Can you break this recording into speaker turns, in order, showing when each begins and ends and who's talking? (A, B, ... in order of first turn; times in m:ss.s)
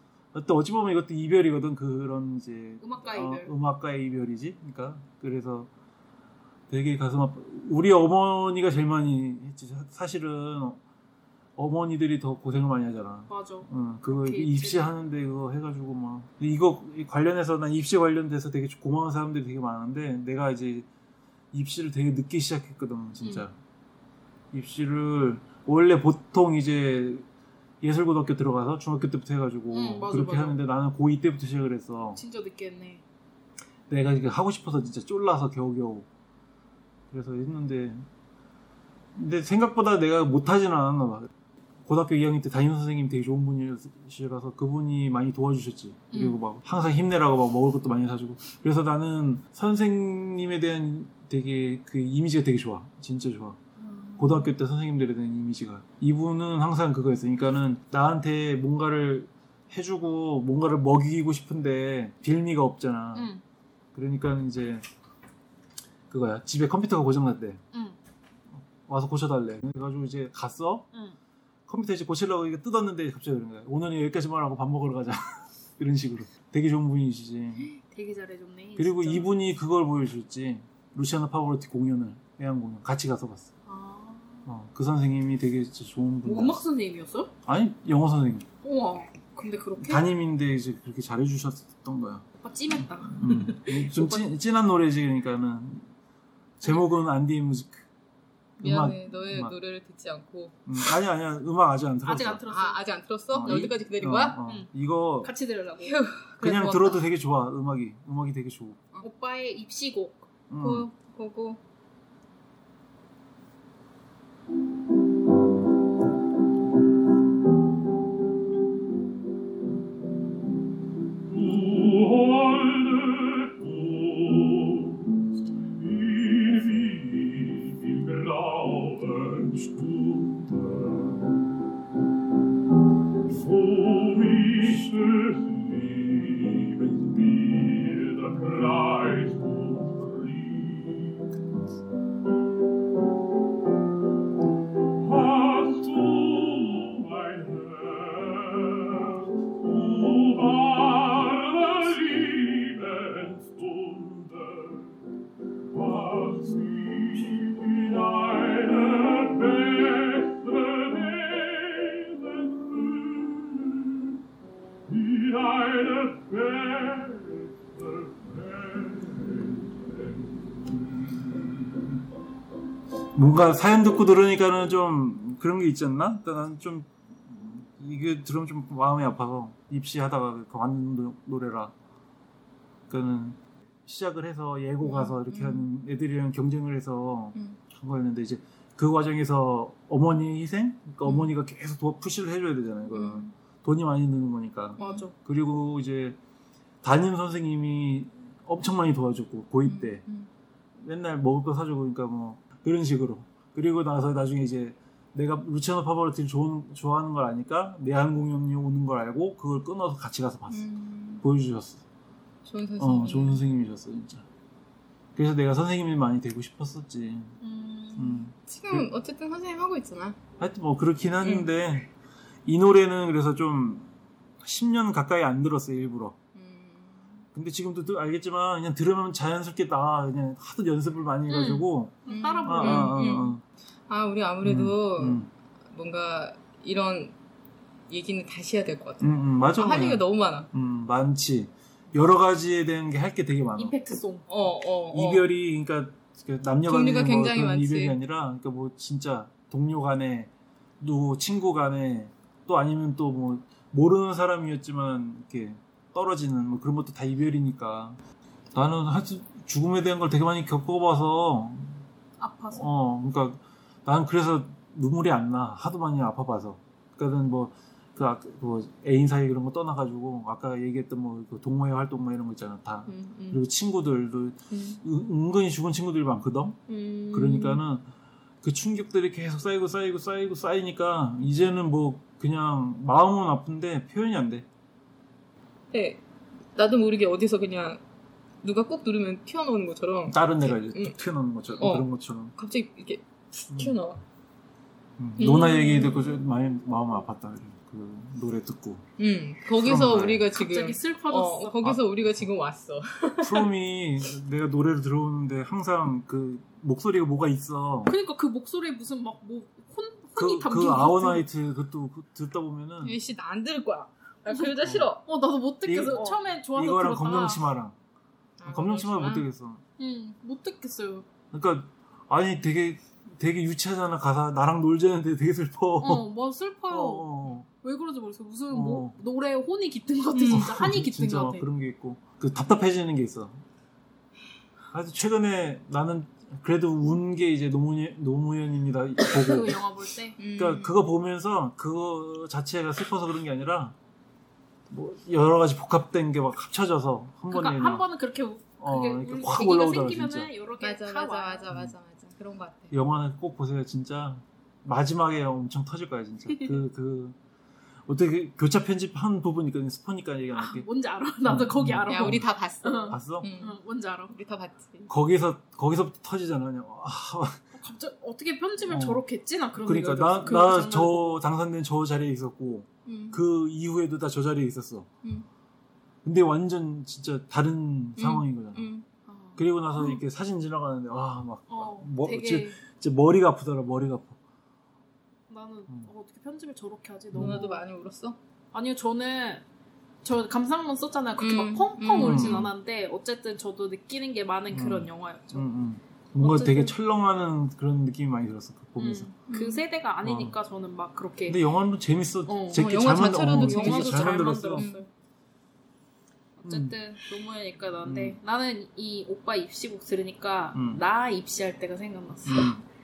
0:00.3-0:05.7 A
0:02.8-0:03.5 B
0:06.7-0:10.8 A
0:11.6-0:20.8 A
0:13.3-0:14.9 B
0:21.5-0:23.5 A
0:24.5-0:27.2 A
0:27.8-0:32.2 A
0:29.7-0:30.6 B
0:32.2-0:33.0 B
0:33.9-0:36.1 A
0:37.1-0:38.0 A
0:39.1-0:41.3 A
0:41.8-0:53.6 A
0:53.8-0:54.4 B
0:54.2-1:03.3 A
1:03.1-1:03.4 B
1:03.9-1:04.8 A
1:06.1-1:07.6 A
1:08.6-1:10.9 A
1:11.7-1:17.7 A
1:17.7-1:19.3 B
1:18.8-1:23.5 A
1:23.6-1:24.5 B
1:24.4-1:26.6 A
1:26.2-1:27.3 B
1:27.4-1:28.5 A
1:28.6-1:30.0 B
1:29.8-1:32.2 A
1:32.4-1:34.2 B
1:33.1-1:35.9 A
1:36.6-1:37.8 A
1:38.6-1:40.6 C
1:38.6-1:39.5 A
1:40.7-1:42.4 A
1:42.0-1:42.8 B
1:42.5-1:44.4 C
1:43.3-1:45.3 A
1:43.4-1:43.7 B
1:45.2-1:46.0 B
1:45.8-1:47.0 C
1:46.4-1:48.8 A
1:49.0-1:50.2 B
1:50.5-1:50.9 A
1:50.6-1:51.6 C
2:26.3-2:26.8 B
2:36.1-2:37.1 B
2:53.1-3:01.7 A
3:02.9-3:16.2 A
3:04.8-3:05.6 C
3:12.9-3:13.3 C
3:14.8-3:15.1 C
3:14.8-3:15.1 B
3:16.8-3:20.0 A
3:19.6-3:20.3 C
3:20.8-3:30.7 A
3:30.5-3:31.2 C
3:31.2-3:31.8 A
3:32.4-3:33.4 C
3:32.8-3:34.2 A
3:35.2-3:37.4 A
3:37.4-3:38.2 B
3:38.0-3:38.9 A
3:38.5-3:40.2 C
3:40.4-3:41.9 A
3:41.2-3:41.5 C
3:42.4-3:43.9 A
3:44.4-3:46.2 A
3:46.3-3:47.2 C
3:47.3-3:53.4 A
3:51.3-3:53.0 B
3:52.1-3:53.3 C
3:53.9-3:57.1 C
3:54.4-3:55.3 A
3:57.9-4:00.5 C
3:59.0-4:03.7 A
4:03.6-4:04.3 B
4:04.3-4:05.3 C
4:04.9-4:18.0 A
4:06.6-4:07.9 C
4:18.5-4:21.8 A
4:22.2-4:22.6 B
4:22.5-4:36.6 A
4:32.9-4:33.4 C
4:34.5-4:34.8 C
4:36.7-4:37.6 C
4:37.1-4:37.8 A
4:38.4-4:44.4 A
4:45.7-4:46.0 C
4:46.5-4:47.8 C
4:48.4-4:50.9 C
4:50.1-4:52.4 A
4:51.6-4:54.0 C
4:53.5-4:53.8 A
4:55.0-4:58.8 A
4:55.2-4:56.1 C
4:59.0-5:03.5 C
4:59.6-5:00.2 A
5:00.3-5:01.8 B
5:03.2-5:07.9 A
5:07.8-5:11.2 B
5:10.2-5:13.0 A
5:12.8-5:15.0 C
5:14.3-5:17.4 B
5:14.6-5:14.9 A
5:15.6-5:17.8 A
5:15.9-5:16.2 C
5:18.4-5:19.2 C
5:18.5-5:19.6 A
5:19.8-5:21.0 B
5:21.3-5:26.0 A
5:25.8-5:31.4 B
5:26.7-5:27.5 A
5:28.5-5:28.9 A
5:30.1-5:30.5 C
5:30.2-5:33.4 A
5:34.7-5:39.6 A
5:39.0-5:40.2 B
5:40.2-5:40.8 C
5:40.4-5:43.7 A
5:44.7-5:47.8 A
5:47.3-5:51.4 B
5:48.6-5:50.3 A
5:50.6-5:52.7 C
5:52.7-5:57.2 A
5:57.9-6:00.6 A
6:00.4-6:04.1 B
6:01.2-6:02.2 A
6:01.9-6:03.6 C
6:02.9-6:03.3 A
6:04.1-6:04.9 C
6:04.9-6:07.4 A
6:07.5-6:11.2 B
6:08.7-6:09.0 A
6:09.6-6:14.9 A
6:12.8-6:13.2 C
6:16.0-6:18.7 A
6:18.0-6:18.8 C
6:19.1-6:19.9 B
6:19.4-6:24.2 A
6:21.5-6:22.6 B
6:25.3-6:27.6 B
6:27.1-6:27.4 A
6:27.2-6:28.2 C
6:28.5-6:29.4 B
6:30.0-6:35.4 B
6:31.2-6:32.4 C
6:32.0-6:32.5 A
6:34.5-6:39.1 A
6:36.2-6:36.7 B
6:38.8-6:41.4 B
6:39.3-6:39.6 C
6:40.0-6:40.4 A
6:41.3-6:44.7 A
6:42.3-6:44.9 B
6:42.5-6:44.8 C
6:46.4-6:52.5 B
6:46.4-6:46.8 A
6:47.8-6:48.2 A
6:50.5-6:50.8 A
6:52.2-6:52.6 A